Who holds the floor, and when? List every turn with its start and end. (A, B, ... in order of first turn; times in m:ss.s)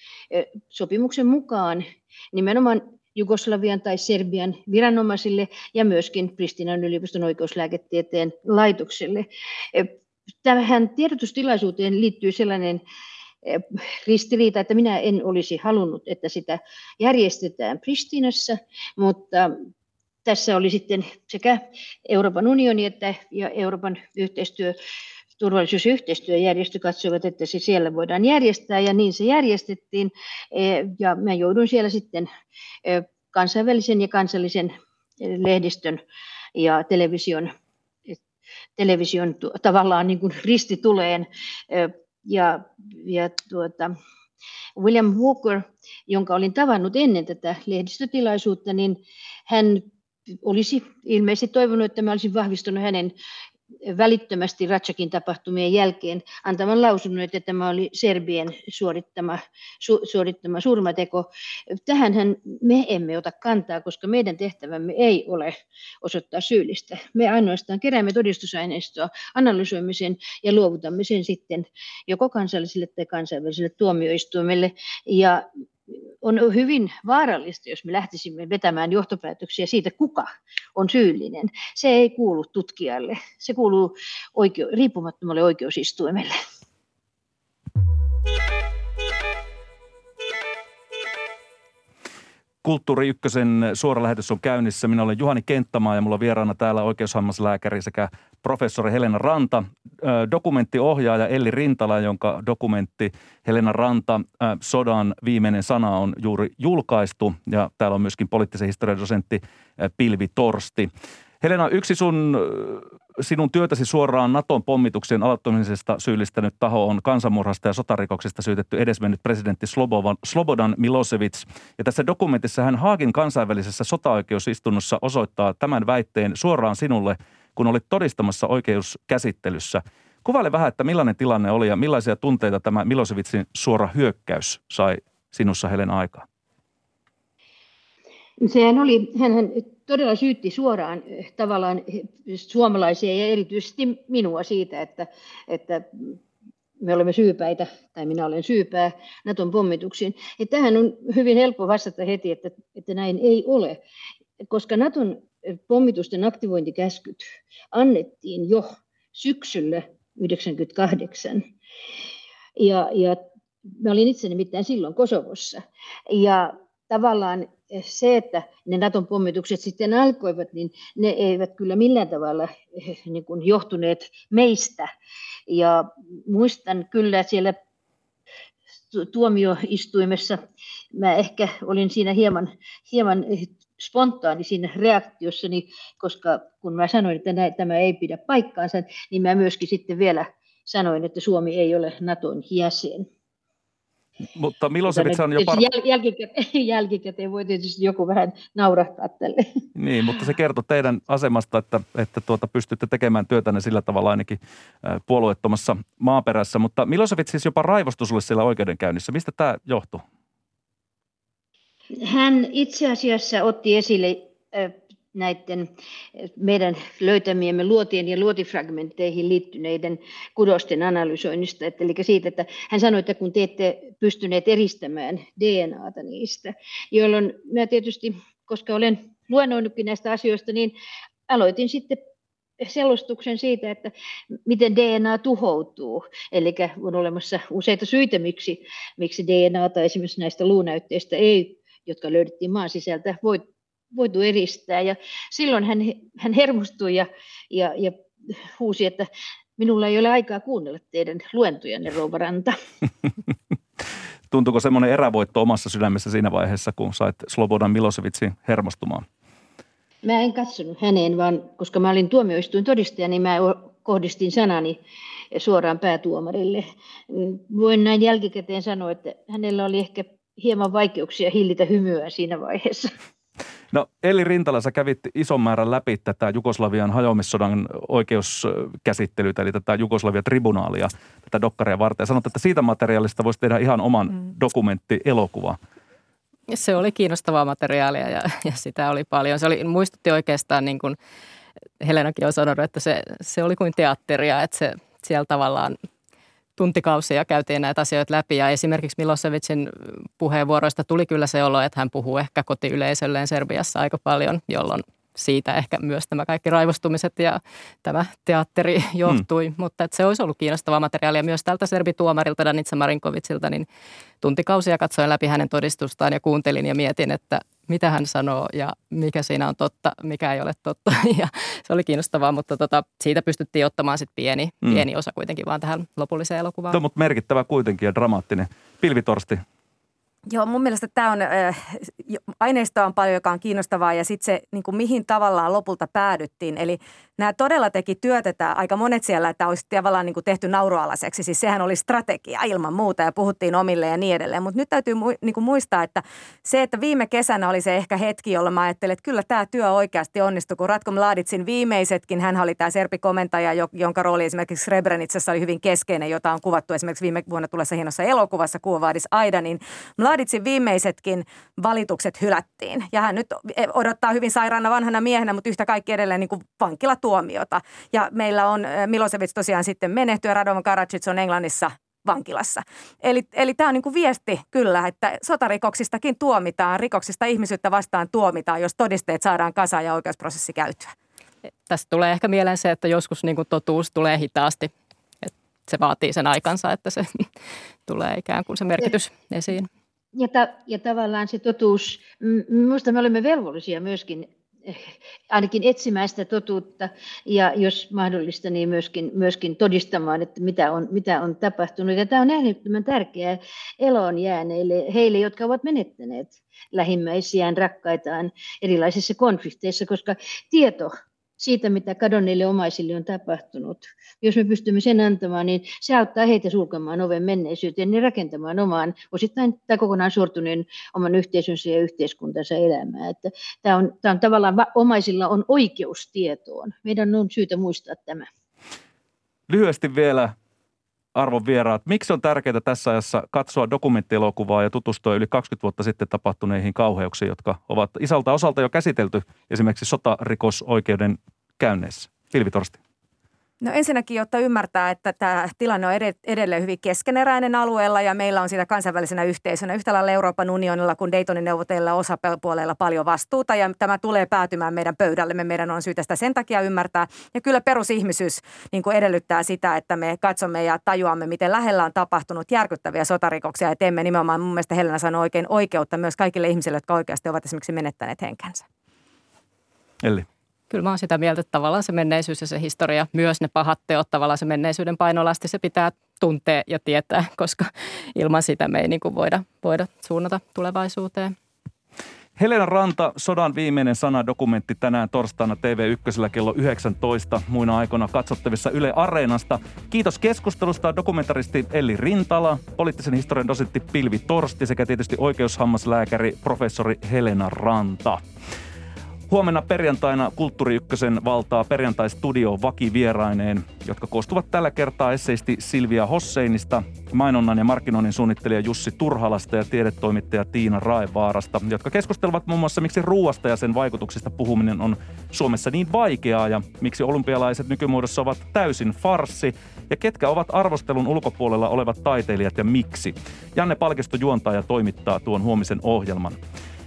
0:00.3-0:09.9 A
0:10.4-0:12.8 A
0:13.4-0:19.5 A
0:20.2-0:24.8 A
0:25.4-0:32.3 A
0:32.8-0:36.0 A
0:36.6-0:37.5 A
0:38.8-0:43.9 A
0:44.8-0:49.8 A
0:50.4-0:53.1 A
0:53.8-1:15.4 A
1:16.2-1:26.3 A
1:32.6-1:50.9 B
1:51.4-2:16.2 B
2:18.4-2:26.2 A
2:26.8-2:33.8 A
2:34.5-2:41.4 A
2:42.6-2:43.2 A
2:43.7-2:54.9 A
2:55.5-2:57.6 A
2:58.9-3:13.1 A
3:14.3-3:15.6 B
3:14.9-3:19.4 A
3:19.8-3:30.0 B
3:32.0-3:50.7 A
3:51.3-3:52.0 A
3:52.6-3:53.9 A
3:54.4-4:12.5 A
4:14.3-4:19.0 B
4:20.0-4:24.8 A
4:25.3-4:32.9 A
4:33.7-4:45.6 B
4:46.5-4:51.0 C
4:51.8-4:55.8 C
4:56.6-5:13.6 C
5:14.2-5:26.8 C
5:26.7-5:29.4 B
5:30.3-6:20.9 D
6:21.7-6:24.7 C
6:25.2-6:27.3 C
6:27.8-6:29.7 C
6:30.1-7:08.3 A
7:09.5-7:10.3 B
7:11.1-7:22.8 B
7:23.6-7:48.6 D
7:50.7-8:01.3 C
8:02.4-8:18.2 B
8:19.3-8:46.4 B